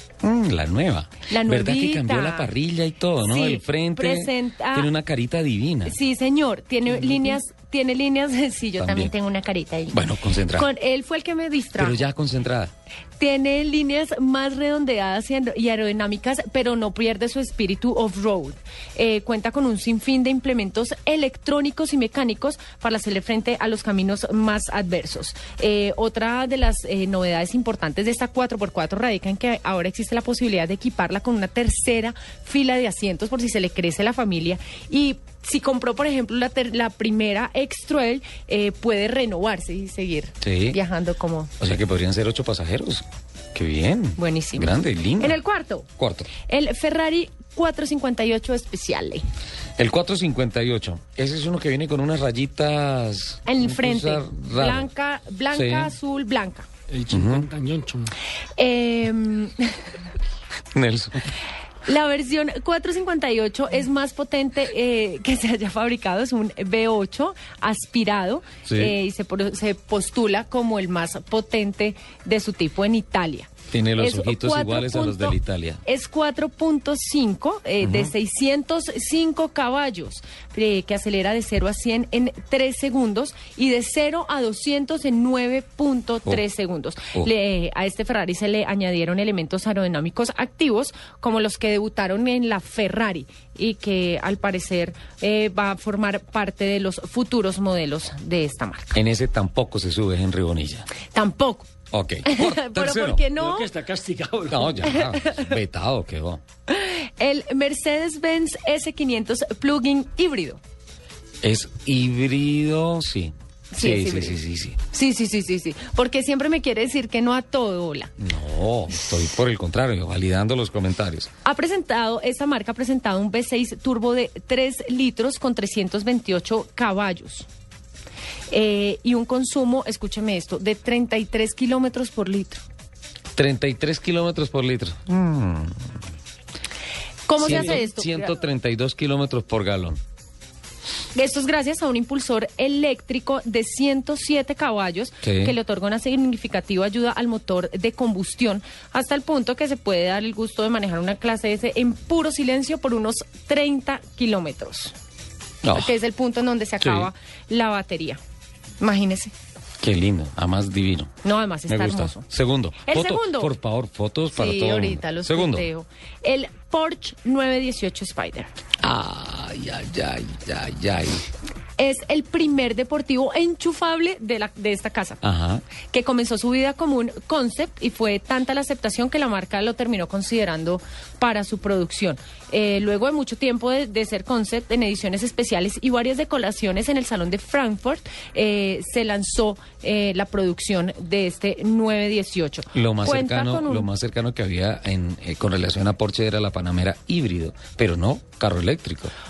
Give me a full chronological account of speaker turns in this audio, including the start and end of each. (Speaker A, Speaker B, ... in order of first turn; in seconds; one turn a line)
Speaker A: 0.2-5.9
Speaker B: 1.3-2.5
Speaker B: 3.2-4.9
Speaker B: 5.8-12.0
Speaker A: 8.8-9.1
Speaker A: 9.9-10.7
Speaker A: 11.8-12.7
Speaker B: 13.2-41.5
Speaker A: 40.4-40.8
Speaker A: 41.6-45.3
Speaker B: 44.2-45.9
Speaker A: 46.0-46.3
Speaker B: 46.4-49.2
Speaker A: 49.8-54.9
Speaker B: 53.5-56.7
Speaker A: 55.5-55.9
Speaker C: 56.9-58.1
Speaker A: 57.1-57.5
Speaker B: 58.6-59.7
Speaker A: 60.7-61.2
Speaker B: 61.9-99.0
Speaker A: 68.7-68.9
Speaker A: 73.7-75.8
Speaker A: 77.8-78.1
Speaker A: 98.9-100.9
Speaker B: 101.1-101.7
Speaker A: 101.9-103.2
Speaker B: 102.2-103.7
Speaker C: 103.3-104.9
Speaker A: 104.5-106.4
Speaker B: 104.8-105.5
Speaker B: 106.7-110.6
Speaker A: 111.4-114.8
Speaker B: 113.7-114.4
Speaker B: 114.9-118.1
Speaker A: 118.2-121.3
Speaker B: 121.4-127.5
Speaker B: 128.5-132.6
Speaker A: 133.3-135.9
Speaker B: 137.3-138.3
Speaker A: 137.4-140.0
Speaker B: 141.1-154.9
Speaker A: 145.2-145.6
Speaker A: 155.6-155.9
Speaker B: 155.7-158.2
Speaker A: 156.8-157.1
Speaker B: 158.8-159.3
Speaker A: 159.8-161.1
Speaker B: 161.2-162.2
Speaker A: 161.7-165.7
Speaker B: 162.8-163.5
Speaker B: 164.3-168.5
Speaker A: 168.8-171.2
Speaker B: 171.8-175.2
Speaker A: 175.2-175.6
Speaker B: 175.9-193.9
Speaker A: 192.7-199.1